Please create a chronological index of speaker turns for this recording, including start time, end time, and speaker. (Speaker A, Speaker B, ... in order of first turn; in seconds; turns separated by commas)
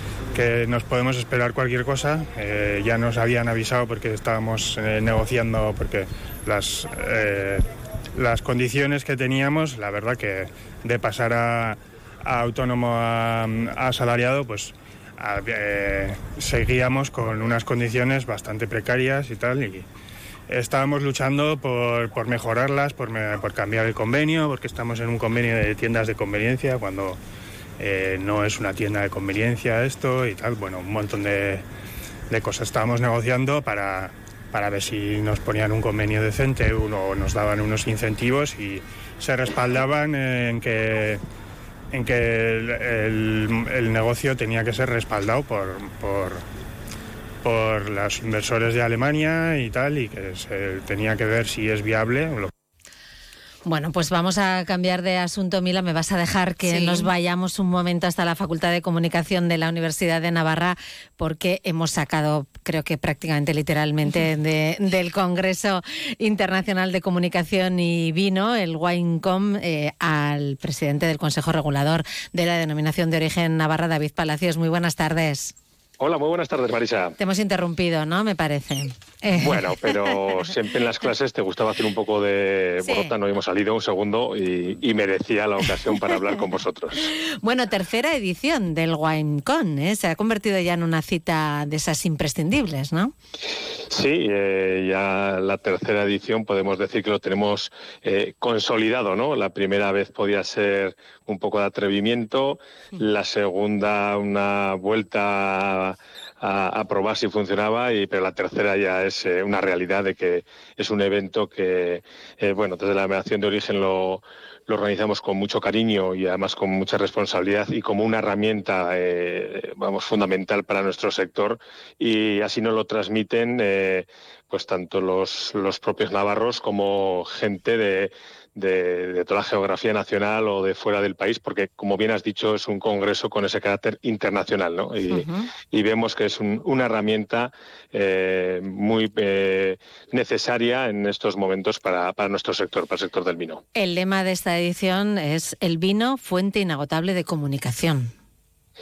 Speaker A: 0.3-19.9, Speaker A: 20.5-27.2, Speaker A: 27.8-31.6, Speaker A: 32.3-41.2, Speaker A: 41.9-46.4, Speaker A: 47.4-52.5, Speaker B: 53.6-75.5, Speaker C: 76.0-77.1, Speaker B: 77.2-80.1, Speaker C: 79.4-87.1, Speaker B: 82.8-83.1, Speaker B: 87.4-93.1, Speaker C: 93.9-143.6, Speaker B: 135.1-135.5, Speaker B: 143.7-148.1